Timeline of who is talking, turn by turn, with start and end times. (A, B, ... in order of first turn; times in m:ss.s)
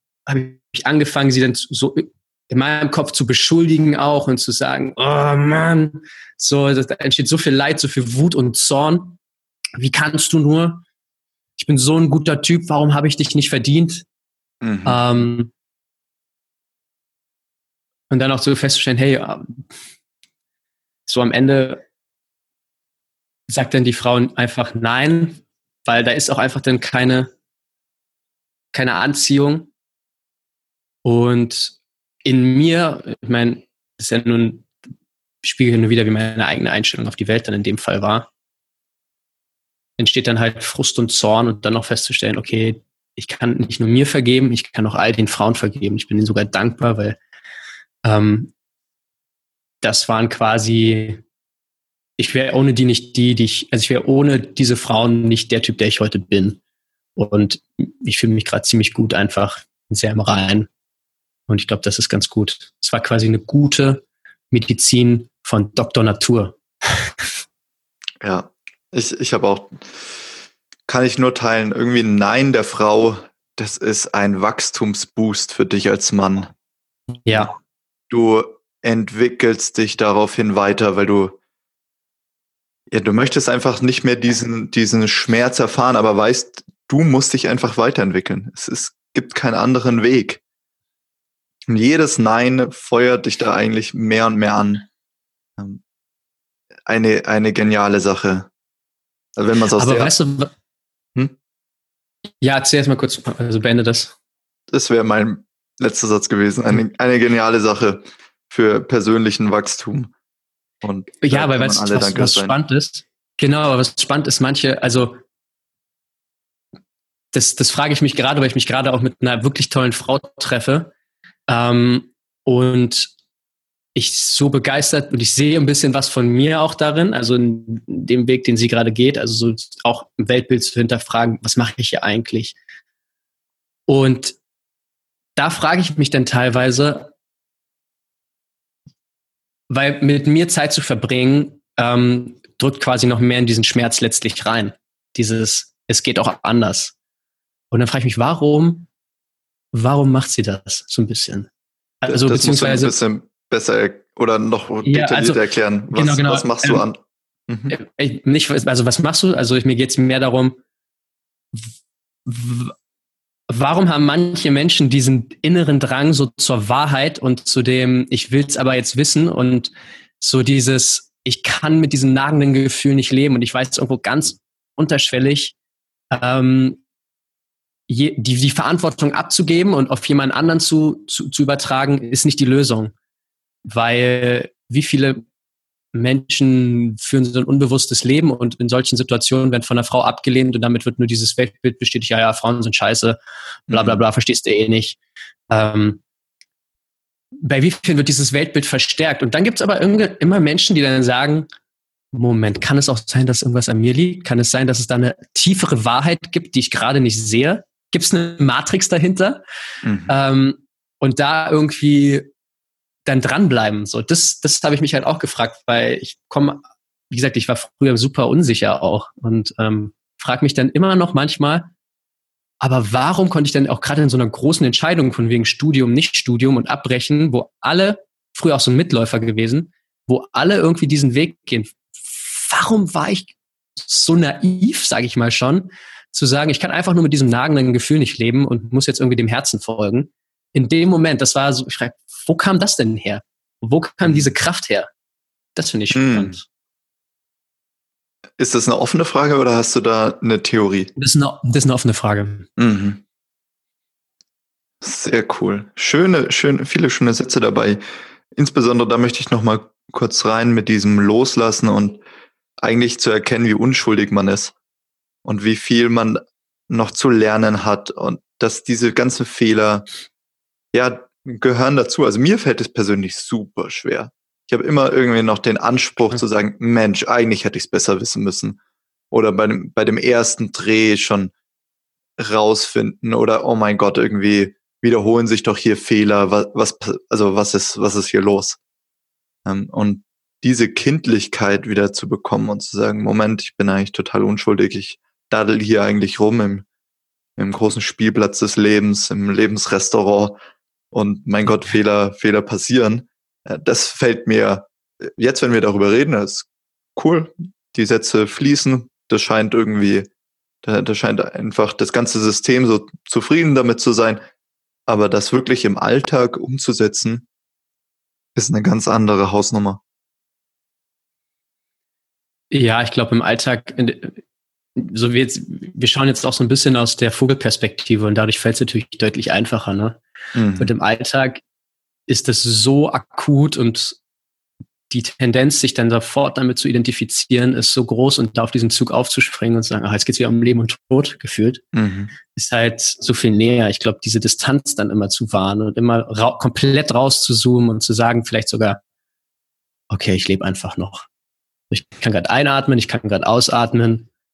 0:00.2-0:09.2 A
0:09.8-0:10.8 A
0:11.6-0:14.0 A
0:14.6-0:15.0 B
0:14.8-0:15.5 A
0:18.1-0:19.6 A
0:21.1-0:21.8 A
0:23.5-0:27.3 A
0:28.7-0:29.7 A
0:31.0-0:34.7 A
0:35.4-0:38.3 A
0:40.0-0:47.2 A
0:48.0-0:48.5 A
0:49.8-0:51.2 A
0:52.2-0:56.6 A
0:57.2-1:00.7 A
1:01.5-1:06.6 A
1:08.2-1:10.2 B
1:10.9-1:16.5 B
1:17.2-1:17.5 A
1:18.1-1:21.4 B
1:22.9-1:30.4 B
1:31.7-1:34.9 B
1:36.9-1:38.5 B
1:39.4-1:40.1 B
1:39.8-1:40.5 A
1:42.4-1:44.1 A
1:44.7-1:50.1 B
1:50.8-1:52.6 B
1:51.2-1:55.2 A
1:57.3-2:00.9 A
2:01.5-2:03.1 A
2:03.9-2:12.6 A
2:13.9-2:14.4 A
2:15.4-2:17.1 A
2:19.7-2:26.9 A
2:27.7-2:28.9 A
2:29.7-2:31.5 A
2:32.0-2:33.0 A
2:32.0-2:37.7 B
2:34.8-2:36.8 A
2:37.7-2:40.6 A
2:42.2-2:42.7 A
2:43.5-2:55.5 A
2:56.1-2:56.8 A
2:57.9-3:02.9 A
3:03.6-3:05.2 A
3:05.9-3:13.2 A
3:13.7-3:15.0 A
3:13.7-3:14.0 B
3:15.5-3:16.0 A
3:17.4-3:21.5 A
3:22.1-3:29.4 A
3:29.8-3:30.1 B
3:30.1-3:32.3 A
3:33.0-3:41.7 A
3:42.6-4:04.9 A
4:04.0-4:04.3 B
4:05.6-4:06.4 A
4:05.9-4:06.4 B
4:08.4-4:10.9 B
4:11.0-4:12.5 A
4:12.6-4:13.0 B
4:14.8-4:17.8 B
4:18.3-4:22.0 B
4:22.6-4:24.5 B
4:25.2-4:29.8 B
4:30.7-4:38.6 B
4:39.1-4:41.3 B
4:42.2-4:48.6 B
4:49.4-4:56.6 B
4:57.4-5:00.4 B
5:00.9-5:10.1 B
5:10.6-5:14.2 B
5:14.9-5:17.2 B
5:18.4-5:19.8 B
5:22.5-5:24.2 A
5:24.8-5:30.0 A
5:30.3-5:30.7 B
5:30.6-5:31.4 A
5:32.1-5:34.0 A
5:34.9-5:41.6 A
5:41.7-5:42.1 B
5:42.3-5:48.8 A
5:49.9-5:51.1 A
5:51.7-5:54.1 A